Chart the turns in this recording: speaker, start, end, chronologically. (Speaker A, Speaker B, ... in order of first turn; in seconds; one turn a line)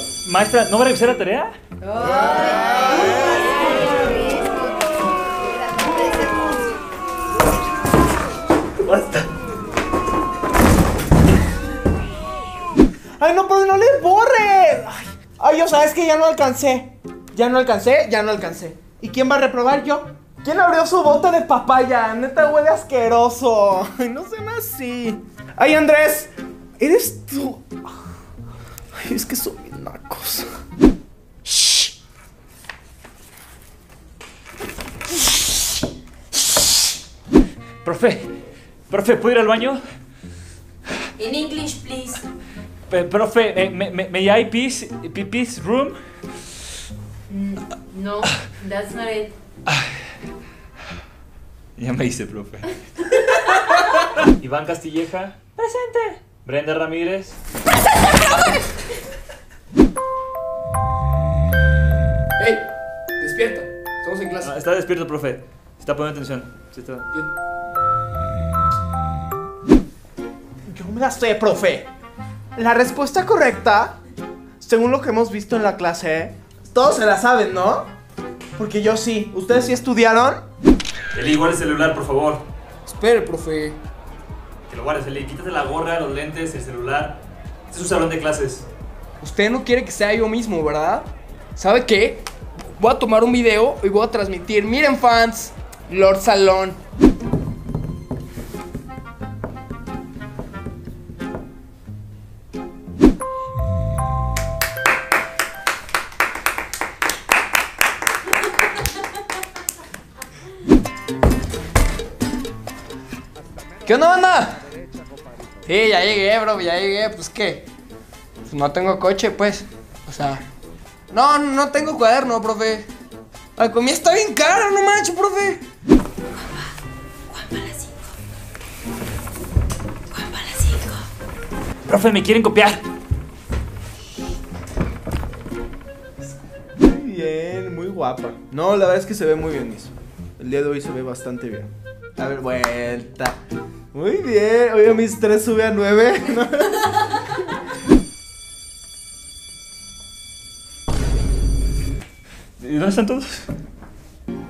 Speaker A: 0.2-1.5
Speaker B: 1.8-4.8
Speaker B: 5.4-6.6
Speaker A: 8.8-9.3
Speaker C: 13.2-27.7
Speaker C: 28.9-30.5
Speaker C: 31.5-31.9
Speaker A: 37.8-38.3
Speaker A: 38.9-39.8
Speaker B: 41.2-42.2
Speaker A: 42.9-46.0
Speaker B: 47.3-49.3
Speaker A: 51.8-52.8
Speaker A: 53.4-57.4
Speaker D: 62.4-62.6
Speaker D: 63.2-64.5
Speaker A: 64.4-67.1
Speaker C: 70.7-71.9
Speaker C: 72.5-74.0
Speaker C: 74.6-77.9
Speaker C: 78.6-80.4
Speaker A: 81.1-82.4
Speaker D: 82.9-83.8
Speaker A: 84.7-87.2
Speaker A: 87.7-88.6
Speaker D: 89.2-96.8
Speaker D: 113.8-114.7
Speaker D: 115.7-117.7
Speaker D: 118.4-120.4
Speaker D: 121.1-122.9
Speaker D: 123.6-125.6
Speaker B: 127.3-127.9
Speaker B: 130.2-131.0
Speaker A: 131.9-132.8
Speaker C: 136.8-143.4
Speaker C: 143.9-147.2
Speaker A: 152.6-153.4